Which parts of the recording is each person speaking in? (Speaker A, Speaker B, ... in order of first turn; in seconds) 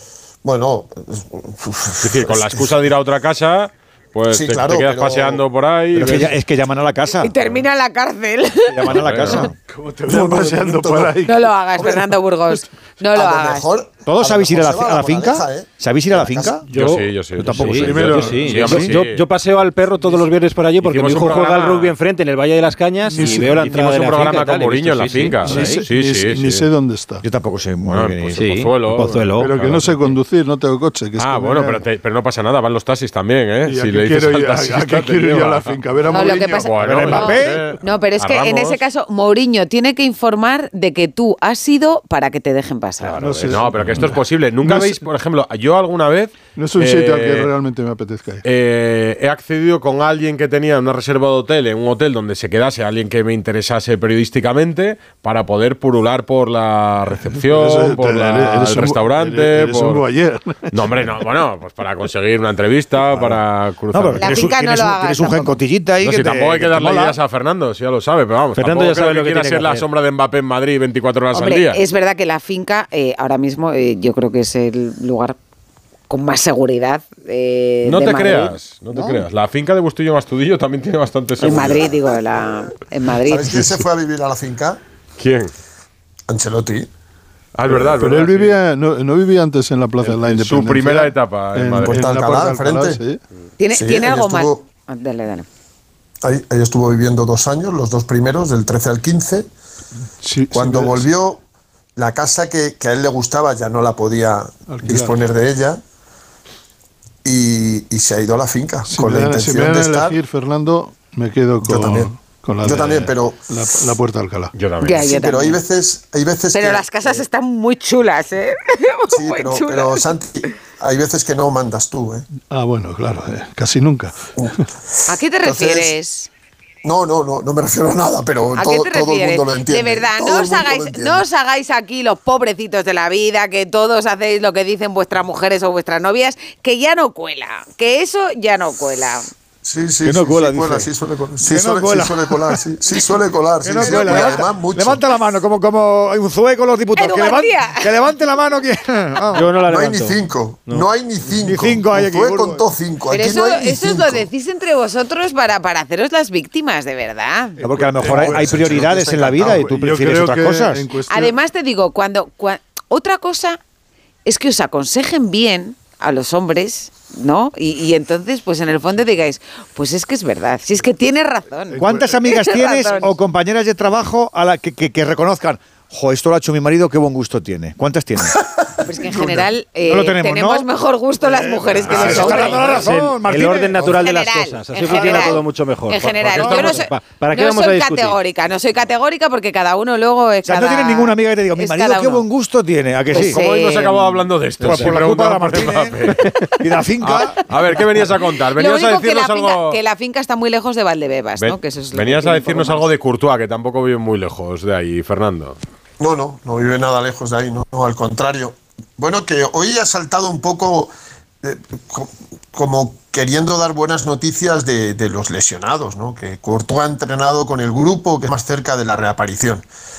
Speaker A: 0.4-2.8, 4.3-5.4, 10.1-11.1, 11.8-12.0, 13.1-16.6, 83.2-84.8, 86.3-86.9, 91.8-93.0, 93.7-94.6, 96.2-99.5, 100.5-101.4, 102.0-105.8, 107.2-110.2, 111.6-112.1, 112.6-113.5, 114.9-117.2, 119.1-122.2, 125.1-125.9, 126.8-131.2, 139.6-145.1, 149.6-154.3, 158.1-159.7, 179.1-179.4, 206.0-210.9, 211.4-219.6
Speaker B: 2.0-6.3, 8.9-9.4, 16.7-19.2, 20.8-21.9, 23.3-26.6, 27.9-30.1, 31.2-38.8, 43.5-47.5, 48.4-60.0, 60.7-64.4, 66.0-71.8, 77.8-81.9, 85.2-85.5, 87.5-88.6, 90.0-92.0, 114.5-115.0, 186.2-186.8, 193.1-196.2, 197.0-199.8, 201.4-205.6
Speaker C: 5.9-7.3, 8.7-9.5, 14.1-16.6, 17.4-18.9, 27.2-28.4, 36.8-37.7, 63.9-67.2, 140.0-142.6, 143.6-149.5, 151.4-152.6, 157.6-160.8, 171.8-178.3, 179.9-180.7, 181.3-184.0, 184.9-185.4, 190.4-193.4, 194.6-197.4
Speaker D: 7.2-9.5, 11.2-13.7, 36.1-43.6, 64.2-65.5, 71.3-75.3, 76.1-79.2, 81.4-83.8, 93.6-95.5, 114.8-115.6, 116.5-120.1, 125.1-126.3, 128.6-139.3, 147.0-147.9, 153.1-157.6, 161.1-163.6, 164.2-173.1, 178.8-182.9, 183.9-192.2, 193.1-194.0, 198.5-202.8
Speaker E: 9.7-11.5, 17.7-18.5, 23.1-23.7, 25.4-27.2, 29.4-31.8, 33.6-36.7, 43.1-45.0, 46.5-48.4, 57.1-61.0, 87.7-93.2, 100.2-101.1, 104.7-105.2, 108.8-114.5, 122.5-124.2, 157.6-161.3, 171.7-172.1, 182.0-182.6
Speaker F: 16.7-25.8, 28.4-29.5, 68.5-69.9, 149.3-150.9, 181.9-188.2